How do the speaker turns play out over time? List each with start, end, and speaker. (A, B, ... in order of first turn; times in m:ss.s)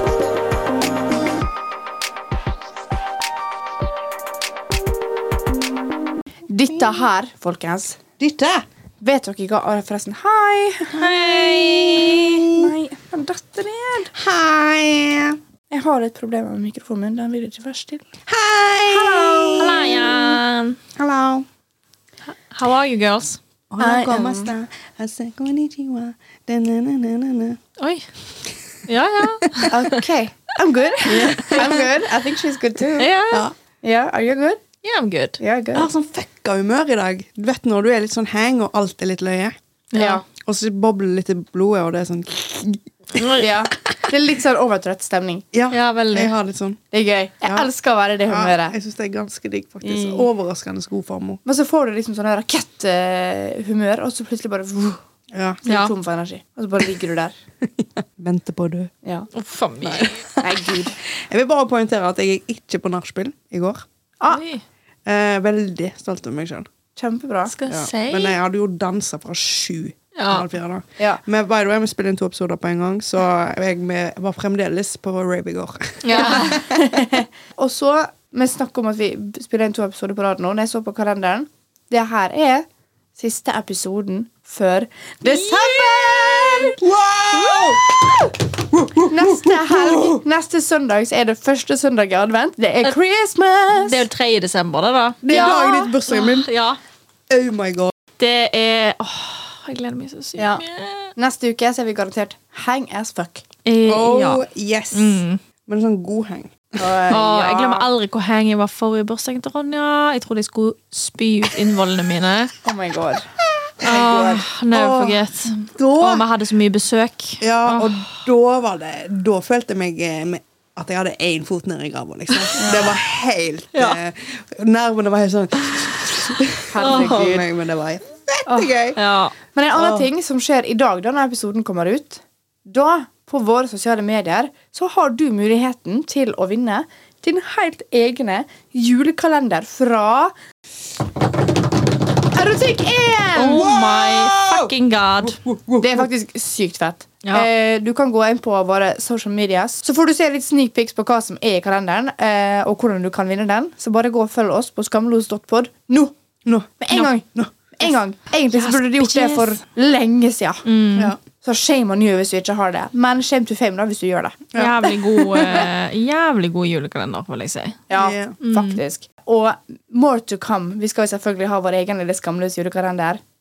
0:06.5-0:08.0 A
0:08.2-0:08.6 B
0:09.0-0:11.3 A
0:10.9-0:12.7 B
0:11.1-0:12.3 C
0:12.0-0:14.1 A
0:14.1-0:15.4 B
0:15.7-0:18.1 A
0:18.3-0:20.3 B
0:18.9-0:20.1 A
0:19.6-0:20.8 C
0:21.0-0:21.4 B
0:22.3-0:23.4 C
0:23.7-0:27.6 B
0:23.8-0:24.5 A
0:27.8-0:28.1 C
0:28.9-0:30.0 C
0:29.4-0:29.7 B
0:29.7-0:33.1 A
0:31.1-0:31.9 B
0:33.0-0:33.4 C
0:33.8-0:34.6 A
0:34.8-0:35.4 C
0:35.4-0:35.9 A
0:35.7-0:39.5 B
0:39.9-0:40.2 C
0:39.9-0:40.2 A
0:40.4-0:44.0 B
0:43.2-0:43.5 C
0:43.4-0:45.4 A
0:45.5-0:46.8 B
0:45.7-0:46.3 C
0:46.9-0:48.7 A
0:48.3-0:51.4 B
0:49.8-0:50.3 A
0:51.4-0:55.0 A
0:55.3-0:55.6 B
0:55.6-0:57.3 A
0:55.6-0:55.9 C
0:57.6-0:58.9 B
0:59.0-0:59.3 A
0:59.3-1:00.2 C
0:59.8-1:03.8 B
1:00.4-1:01.0 A
1:04.3-1:04.6 C
1:05.0-1:06.7 B
1:07.0-1:07.5 A
1:07.5-1:08.4 C
1:07.7-1:17.0 B
1:10.2-1:10.5 C
1:16.0-1:16.6 C
1:16.1-1:26.8 A
1:25.2-1:26.7 C
1:26.8-1:30.2 B
1:27.3-1:28.2 A
1:29.0-1:34.1 A
1:33.7-1:36.8 C
1:35.2-1:36.5 B
1:35.3-1:35.6 A
1:37.3-1:37.9 B
1:38.2-1:41.1 C
1:40.4-1:40.6 A
1:41.2-1:43.4 A
1:43.6-1:45.4 C
1:43.8-1:47.2 B
1:46.8-1:47.9 A
1:47.1-1:52.5 C
1:52.6-1:53.2 A
1:53.8-1:56.2 B
1:53.8-1:58.1 C
1:53.8-1:54.4 A
1:57.4-2:09.0 B
2:02.6-2:02.9 A
2:06.7-2:07.4 A
2:06.8-2:07.4 C
2:08.5-2:08.8 A
2:09.0-2:09.3 C
2:09.5-2:20.3 A
2:09.7-2:10.0 B
2:22.3-2:23.7 A
2:23.3-2:25.4 C
2:23.4-2:26.1 B
2:25.8-2:36.1 A
2:27.2-2:27.5 C
2:36.4-2:36.8 B
2:36.8-2:40.6 A
2:38.5-2:39.5 C
2:40.6-2:41.1 C
2:41.4-2:45.7 A
2:44.5-2:44.9 B
2:44.6-2:47.8 C
2:47.9-2:53.2 A
2:47.9-2:48.4 B
2:48.4-2:48.8 C